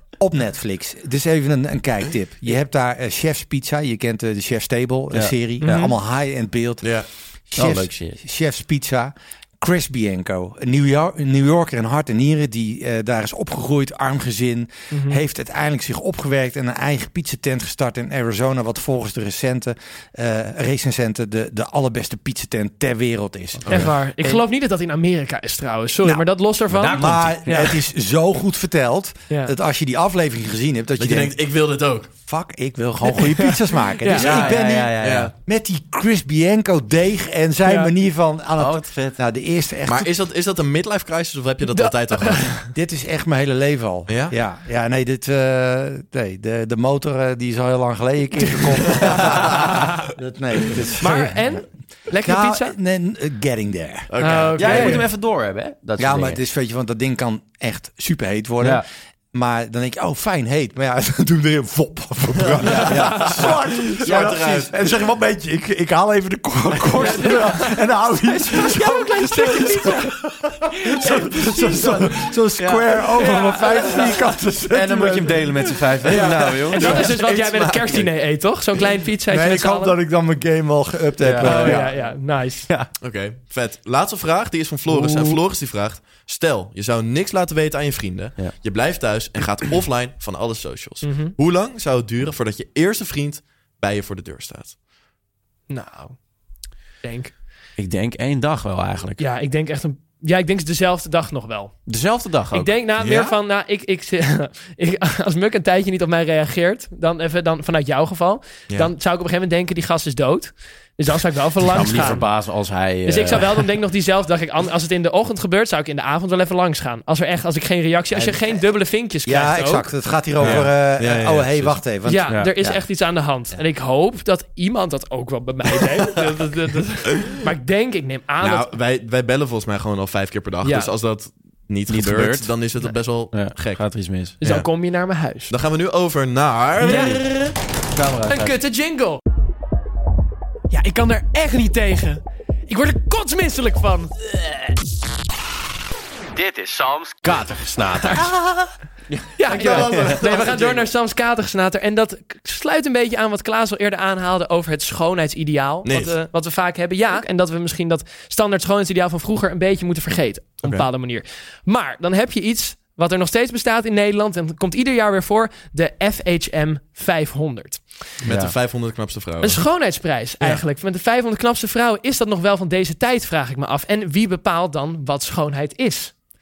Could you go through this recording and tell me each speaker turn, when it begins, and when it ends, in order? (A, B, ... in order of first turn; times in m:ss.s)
0:00.2-0:24.4 A
0:05.1-0:05.7 B
0:05.6-0:05.9 C
0:06.8-0:07.1 D
0:07.6-0:08.2 B
0:14.9-0:15.2 C
0:23.7-0:23.9 D
0:23.7-0:27.8 C
0:26.7-0:27.6 B
0:26.9-0:31.4 A
0:31.0-0:32.1 D
0:32.3-0:40.1 A
0:33.1-0:34.3 C
0:34.1-0:35.3 B
0:34.2-0:35.3 D
0:37.6-0:37.9 C
0:38.6-0:39.2 B
0:39.9-0:42.6 D
0:41.7-0:42.7 C
0:42.7-0:51.5 A
0:44.1-0:44.4 D
0:51.0-0:52.7 C
0:52.2-0:54.4 A
0:54.1-0:55.0 D
0:54.2-0:55.1 C
0:54.6-0:56.4 B
0:56.0-1:15.8 A
1:02.4-1:04.7 D
1:02.7-1:03.4 B
1:02.7-1:03.1 C
1:07.0-1:07.8 C
1:08.5-1:10.2 C
1:11.0-1:12.1 C
1:12.6-1:12.9 B
1:13.2-1:14.2 C
1:14.7-1:17.1 B
1:16.1-1:20.0 C
1:16.7-1:18.1 D
1:19.3-1:21.9 A
1:21.2-1:21.9 B
1:21.4-1:22.7 C
1:23.0-1:34.8 D
1:24.9-1:25.4 B
1:31.0-1:31.4 C
1:35.7-1:36.2 C
1:37.0-1:37.3 C
1:37.8-1:39.2 B
1:39.2-1:41.8 C
1:41.9-1:42.7 B
1:42.5-1:52.4 C
1:43.0-1:43.4 D
1:51.6-1:53.7 B
1:53.0-1:59.9 C
1:58.1-1:58.6 A
1:59.2-2:02.8 A
2:00.4-2:01.8 D
2:00.4-2:00.7 B
2:02.0-2:08.7 C
2:08.4-2:13.8 D
2:10.6-2:10.9 C
2:11.9-2:12.5 B
2:13.3-2:14.4 B
2:14.4-2:15.5 C
2:14.4-2:14.7 D
2:15.5-2:17.3 D
2:16.8-2:18.6 B
2:16.8-2:17.2 C
2:18.3-2:19.2 C
2:20.7-2:24.1 C
2:26.3-2:30.2 B
2:28.0-2:28.3 C
2:29.4-2:48.1 C
2:29.5-2:30.9 D
2:35.8-2:36.2 D
2:48.2-2:49.6 D
2:48.3-2:48.5 B
2:49.4-2:56.2 C